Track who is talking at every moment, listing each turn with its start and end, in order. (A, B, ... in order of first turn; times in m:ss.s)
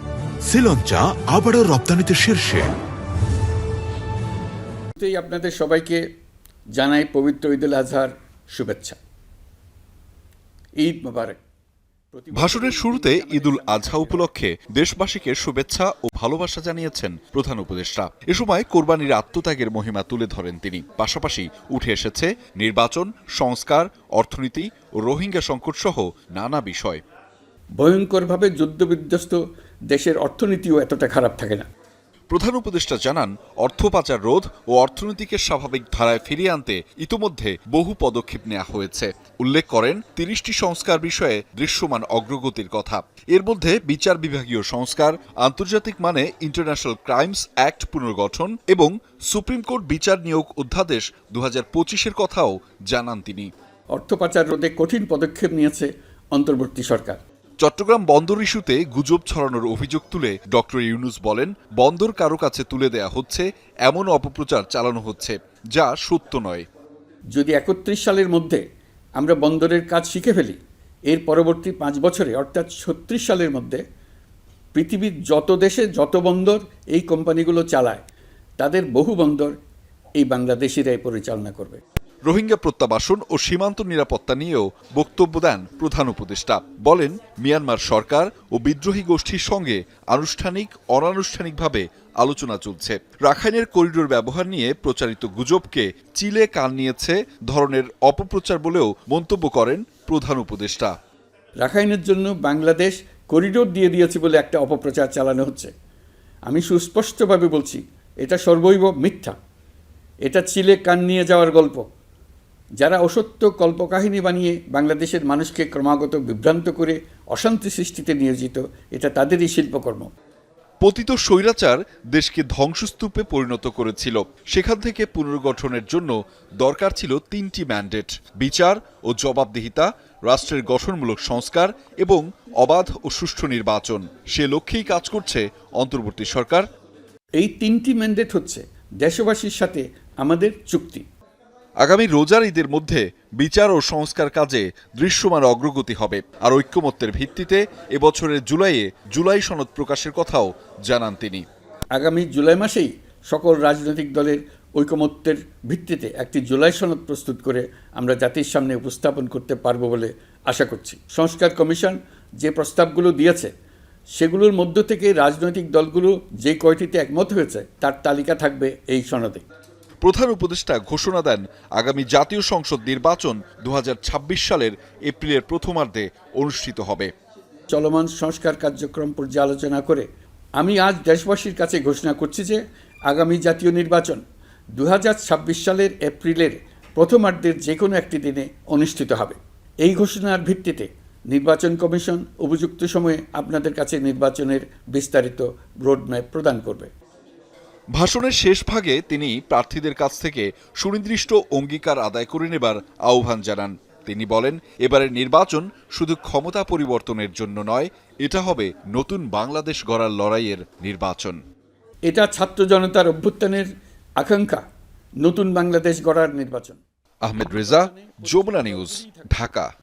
0:00.4-0:02.7 A
0:05.0-0:06.0 B
0:06.8-0:09.0 B
0:10.8-0:11.4 B
0:12.1-0:14.3 B
0:12.3-0:27.0 C
0:27.8-0:29.4 B
0:29.9-0:31.7 B
0:32.3-0:53.5 C
0:53.9-0:57.2 B
0:57.6-1:06.7 C
1:07.3-1:08.6 B
1:09.2-1:10.6 B
1:11.1-1:13.8 B
1:14.8-1:18.0 B
1:18.6-1:19.5 B
1:20.2-1:21.8 B
1:22.3-1:40.9 C
1:41.6-1:45.7 B
1:46.5-1:49.4 B
1:50.2-1:51.8 B
1:52.8-2:00.1 B
2:00.8-2:16.7 C
2:17.4-2:21.1 B
2:21.8-2:31.4 C
2:32.0-2:43.5 B
2:44.2-2:49.4 B
2:50.0-2:57.1 C
2:57.7-3:00.1 B
3:00.6-3:04.2 B
3:04.8-3:16.9 B
3:18.0-3:31.4 C
3:32.1-3:33.7 B
3:34.2-3:34.6 B
3:35.2-3:36.8 B
3:37.2-3:39.7 C
3:37.4-3:39.5 B